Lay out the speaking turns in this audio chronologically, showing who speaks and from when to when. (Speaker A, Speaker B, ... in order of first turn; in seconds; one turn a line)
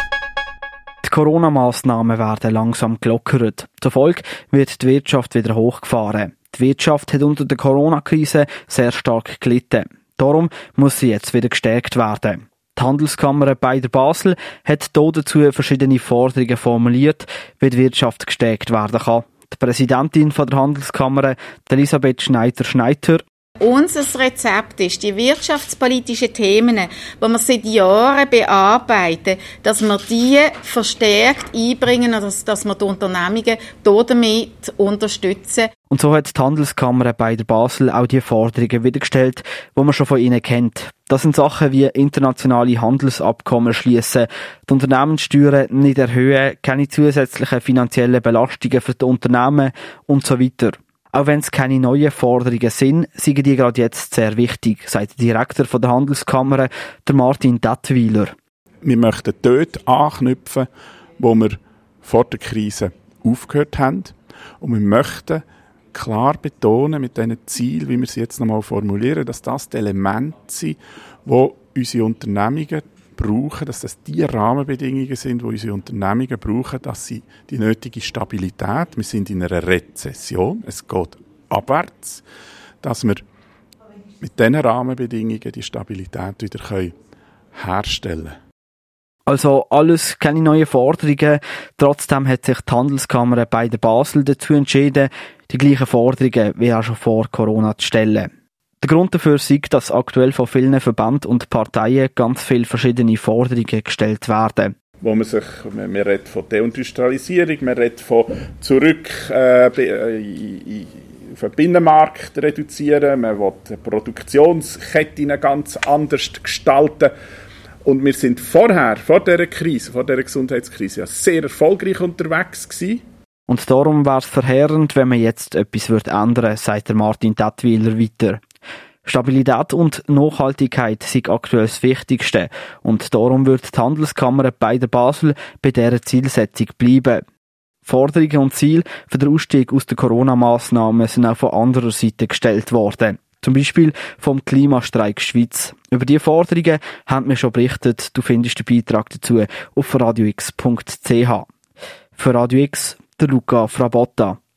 Speaker A: 1.0-23.2
Speaker B: 23.6-35.7
Speaker A: 35.9-58.3
Speaker C: 58.8-65.4
Speaker C: 65.9-82.2
Speaker C: 82.8-83.2
Speaker C: 84.2-86.9
Speaker C: 87.5-88.3
Speaker A: 89.3-98.3
Speaker A: 98.8-104.8
Speaker C: 105.0-117.1
Speaker C: 117.8-123.0
Speaker A: 123.5-128.4
Speaker A: 129.1-137.2
Speaker A: 137.8-151.5
Speaker A: 152.2-154.4